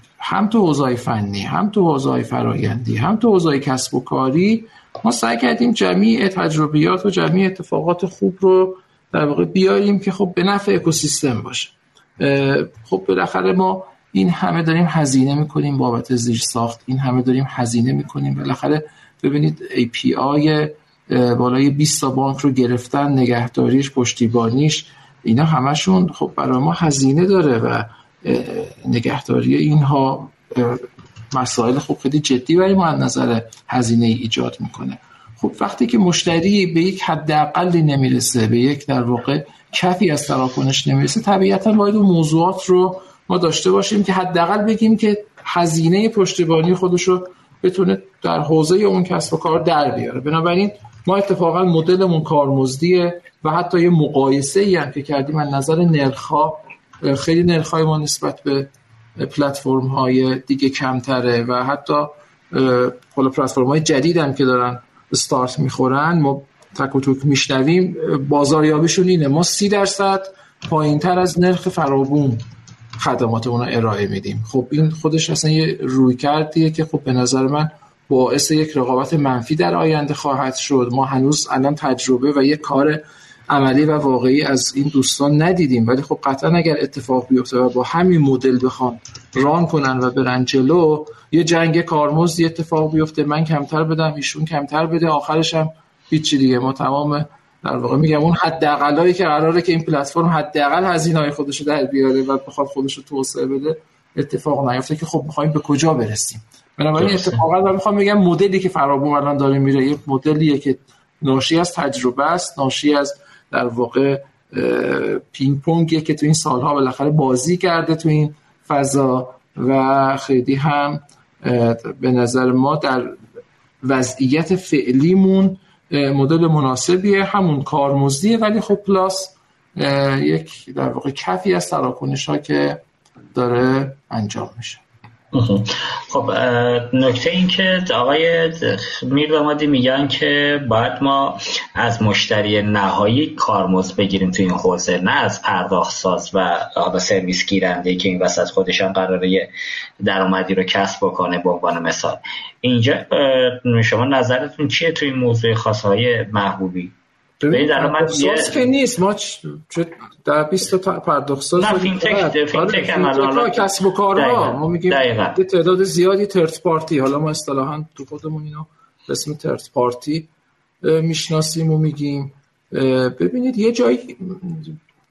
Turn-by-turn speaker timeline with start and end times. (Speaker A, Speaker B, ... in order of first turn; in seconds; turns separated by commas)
Speaker A: 0.2-72.5, Speaker A: 73.0-123.2, Speaker B: 107.0-107.4, Speaker A: 123.8-132.8, Speaker A: 133.3-134.8, Speaker B: 135.3-149.5, Speaker B: 150.0-156.9, Speaker A: 157.4-170.3, Speaker B: 157.5-158.7, Speaker B: 161.6-165.4, Speaker A: 170.8-174.8